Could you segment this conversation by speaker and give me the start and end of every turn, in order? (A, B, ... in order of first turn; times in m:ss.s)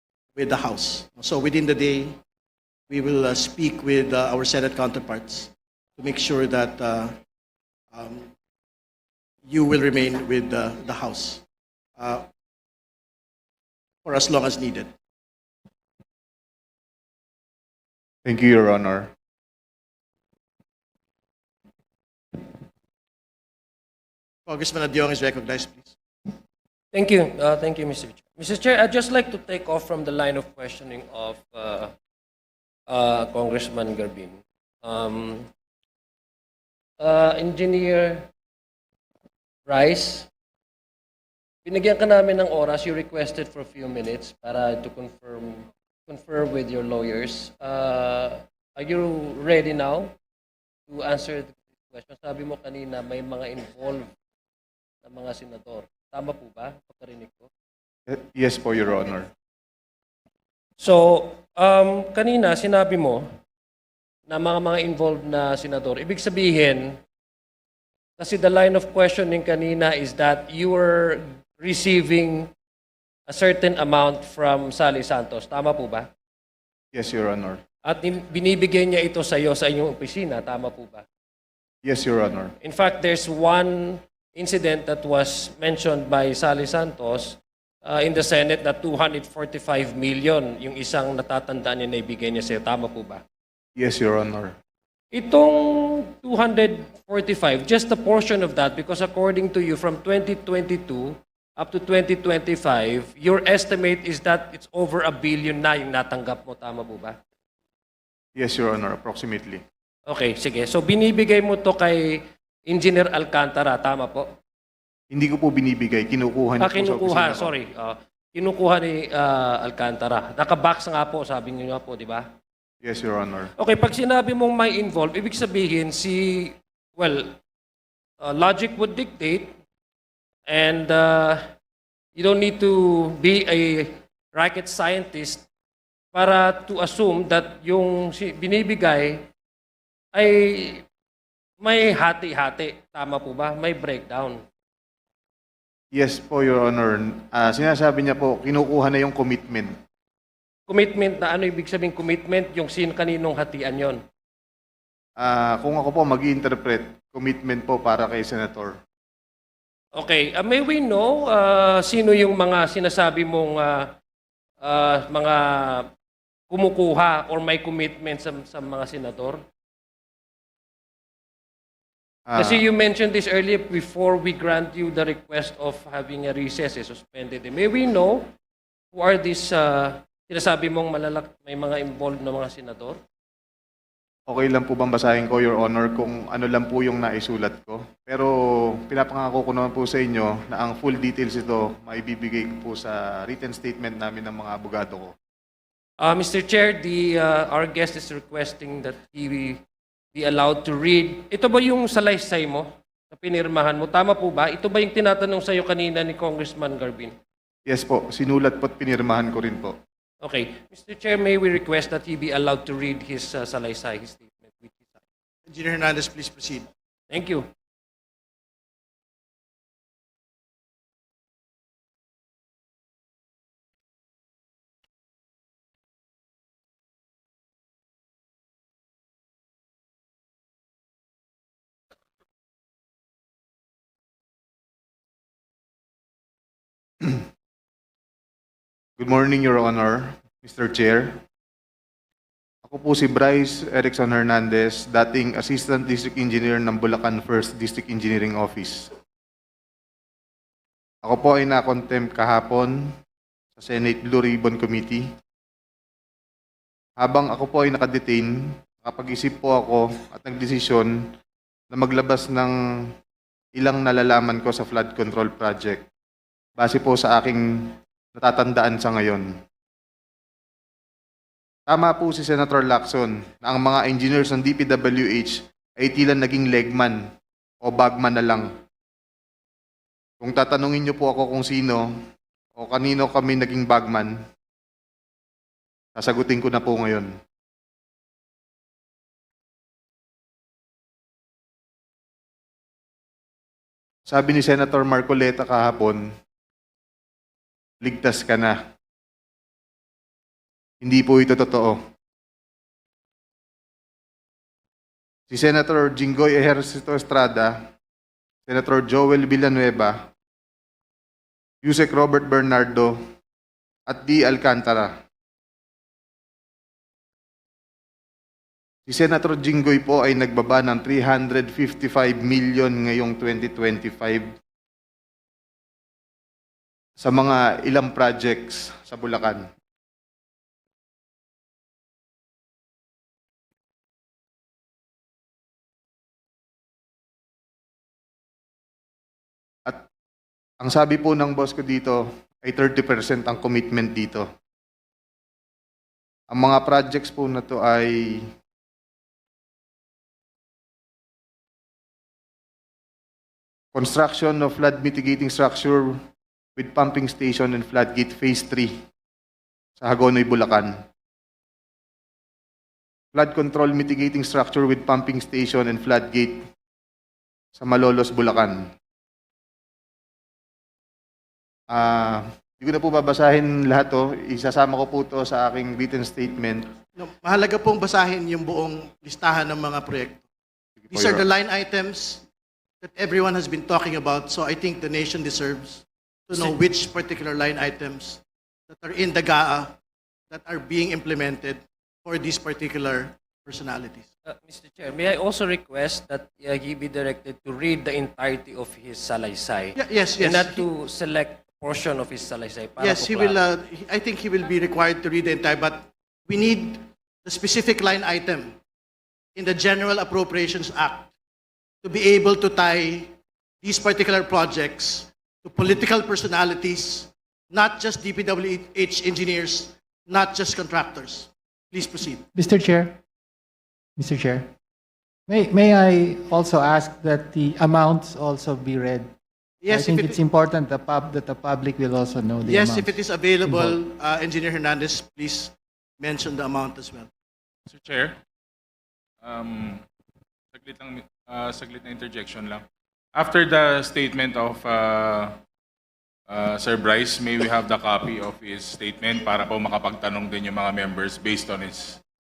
0:00.4-0:02.2 A
0:02.9-0:07.2 A
0:07.9-0:08.3 A
0:09.4-0:11.4 A
0:12.0-0:12.2 A
0:14.0-0:14.9 A
0:18.2-0:19.1 B
0:24.5-0:26.0 A
0:26.9-0:31.9 C
0:32.9-0:35.5 C
0:37.0-0:38.3 C
0:39.7-0:40.3 C
0:41.6-0:50.1 C
0:50.9-0:54.1 C
0:55.0-0:57.5 C
0:58.1-0:59.3 B
1:00.8-1:03.2 C
1:04.3-1:07.0 C
1:08.2-1:12.5 C
1:13.3-1:16.1 C
1:16.9-1:17.6 B
1:17.8-1:21.0 C
1:21.8-1:22.5 B
1:22.6-1:33.2 C
1:33.8-1:34.6 B
1:35.1-1:47.2 C
1:48.4-1:49.6 B
1:50.1-1:54.3 C
1:55.1-1:57.5 B
1:56.6-2:02.3 C
2:02.8-2:03.5 B
2:03.6-2:07.4 C
2:08.2-2:09.5 C
2:10.5-2:11.4 C
2:12.2-2:15.5 C
2:16.1-2:19.3 C
2:20.1-2:20.8 C
2:21.6-2:24.4 C
2:25.9-2:29.8 B
2:30.7-2:34.0 C
2:35.2-2:38.8 B
2:40.0-2:43.9 C
2:44.6-2:45.9 C
2:46.5-2:49.4 C
2:52.3-2:52.6 B
2:52.4-2:58.2 C
2:58.9-3:03.0 C
3:04.3-3:15.1 B
3:16.0-3:19.6 C
3:20.2-3:27.1 C
3:27.7-3:29.8 B
3:30.2-3:35.0 C
3:35.5-3:36.7 A
3:37.1-3:37.5 C
3:57.0-3:57.3 B
3:59.0-4:01.2 B
4:02.6-4:08.9 B
4:11.0-4:12.9 B
4:13.6-4:15.1 B
4:17.0-4:21.0 B
4:21.7-4:22.9 B
4:23.6-4:25.8 B
4:26.6-4:29.3 B
4:31.7-4:37.0 B
4:37.6-4:38.5 B
4:40.2-4:41.9 B
4:42.6-4:44.2 B
4:46.0-4:47.1 B
4:54.1-4:56.1 B
4:57.8-4:58.6 B
5:00.8-5:01.8 B
5:05.3-5:07.7 B
5:08.5-5:10.1 B
5:11.6-5:13.0 B
5:13.9-5:15.0 B
5:18.9-5:24.3 B
5:27.0-5:29.5 B
5:40.6-5:44.3 B
5:46.3-5:48.3 B
5:53.7-5:56.0 B
5:56.6-5:58.8 B
5:59.8-6:00.8 B
6:03.1-6:06.4 B
6:07.6-6:08.7 B
6:11.7-6:16.7 B
6:17.0-6:20.3 A
6:20.8-6:21.2 B
6:20.9-6:22.2 A
6:22.8-6:29.8 A
6:30.3-6:34.0 A
6:34.3-6:43.4 C
6:39.8-6:40.7 A
6:42.8-6:48.6 A
6:49.4-6:51.1 A
6:51.8-7:02.3 A
7:02.4-7:03.0 D
7:04.0-7:04.5 D
7:05.3-7:09.1 D
7:09.6-7:10.2 A
7:09.7-7:13.8 D
7:12.4-7:17.1 A
7:17.7-7:18.2 E
7:19.2-7:19.8 E
7:20.5-7:25.4 E
7:26.3-7:32.0 E